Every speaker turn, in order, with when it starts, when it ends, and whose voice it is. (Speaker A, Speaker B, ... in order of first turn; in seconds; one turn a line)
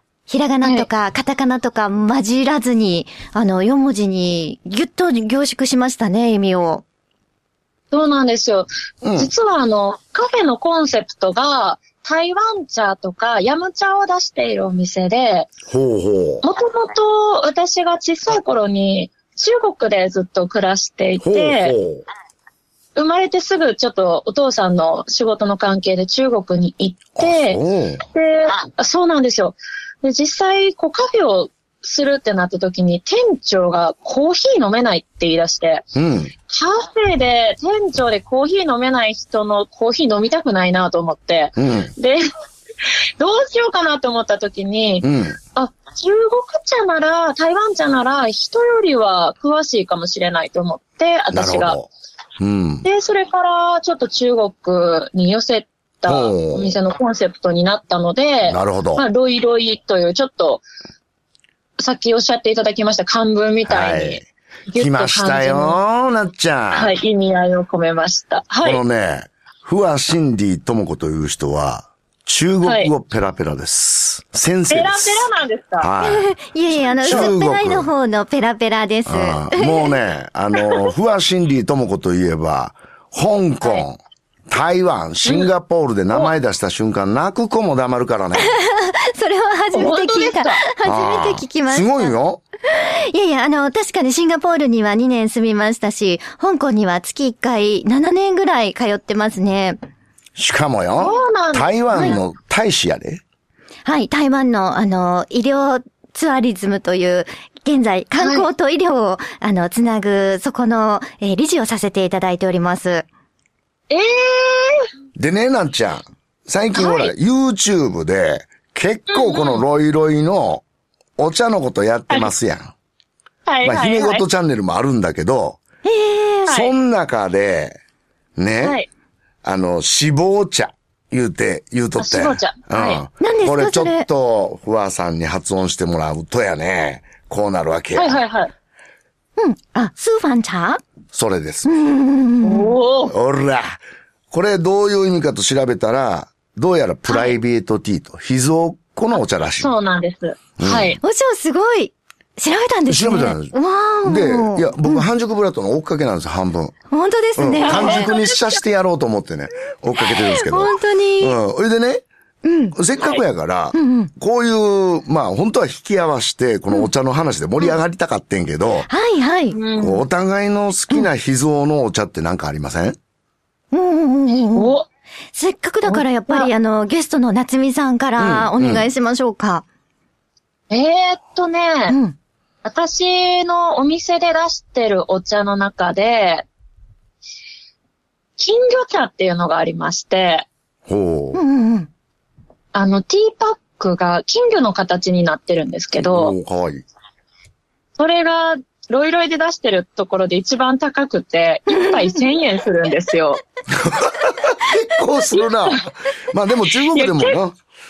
Speaker A: 0.3-6.8
Speaker B: 7.9-15.5
Speaker C: 9.0-9.3
Speaker C: 15.7-16.4
Speaker B: 16.4-21.7
Speaker C: 21.2-22.0
Speaker B: 22.9-35.9
Speaker C: 27.2-28.0
Speaker C: 35.9-36.3
Speaker B: 36.5-42.2
Speaker C: 41.6-41.9
Speaker B: 43.2-51.8
Speaker C: 45.0-45.4
Speaker C: 51.3-52.9
Speaker B: 52.8-60.6
Speaker C: 56.1-56.8
Speaker C: 58.5-59.0
Speaker B: 61.8-65.8
Speaker C: 63.7-66.9
Speaker B: 66.7-68.8
Speaker C: 68.6-76.3
Speaker B: 72.6-72.9
Speaker B: 74.7-75.9
Speaker A: 76.0-79.9
Speaker C: 77.0-77.9
Speaker B: 77.0-77.3
Speaker C: 79.0-84.0
Speaker C: 84.5-88.6
Speaker A: 88.4-92.1
Speaker B: 89.7-90.6
Speaker C: 90.8-92.4
Speaker A: 92.7-99.8
Speaker C: 100.3-103.2
Speaker B: 101.0-102.2
Speaker A: 103.8-113.0
Speaker B: 108.2-108.5
Speaker B: 113.9-114.9
Speaker C: 115.2-120.6
Speaker B: 116.7-117.1
Speaker B: 119.1-119.6
Speaker C: 121.2-122.7
Speaker B: 123.5-124.2
Speaker C: 123.6-125.6
Speaker A: 125.8-126.5
Speaker C: 126.5-127.8
Speaker C: 128.4-128.8
Speaker B: 128.6-128.9
Speaker C: 129.4-138.2
Speaker B: 132.0-133.0
Speaker A: 133.2-134.1
Speaker B: 137.9-138.5
Speaker A: 139.4-140.8
Speaker C: 141.1-141.7
Speaker A: 141.6-142.8
Speaker B: 142.4-143.1
Speaker C: 143.1-149.7
Speaker A: 147.1-147.3
Speaker B: 149.6-151.0
Speaker C: 150.6-151.0
Speaker A: 151.0-155.1
Speaker C: 152.9-156.7
Speaker A: 156.9-158.1
Speaker C: 157.3-162.0
Speaker B: 157.6-158.5
Speaker A: 160.0-161.4
Speaker A: 162.4-162.8
Speaker C: 162.7-168.9
Speaker A: 163.7-164.1
Speaker A: 168.9-169.6
Speaker B: 169.5-170.0
Speaker C: 169.8-173.0
Speaker A: 173.7-174.8
Speaker B: 174.5-174.8
Speaker A: 175.3-179.6
Speaker B: 175.8-176.5
Speaker C: 178.2-178.9
Speaker B: 180.7-182.0
Speaker A: 181.9-182.2
Speaker B: 182.6-186.4
Speaker B: 188.4-190.4
Speaker C: 190.9-191.4
Speaker A: 191.3-191.9
Speaker B: 192.7-196.3
Speaker C: 196.0-196.8
Speaker B: 198.0-203.4
Speaker A: 201.7-202.2
Speaker C: 203.7-207.6
Speaker B: 205.3-205.8
Speaker B: 206.9-207.4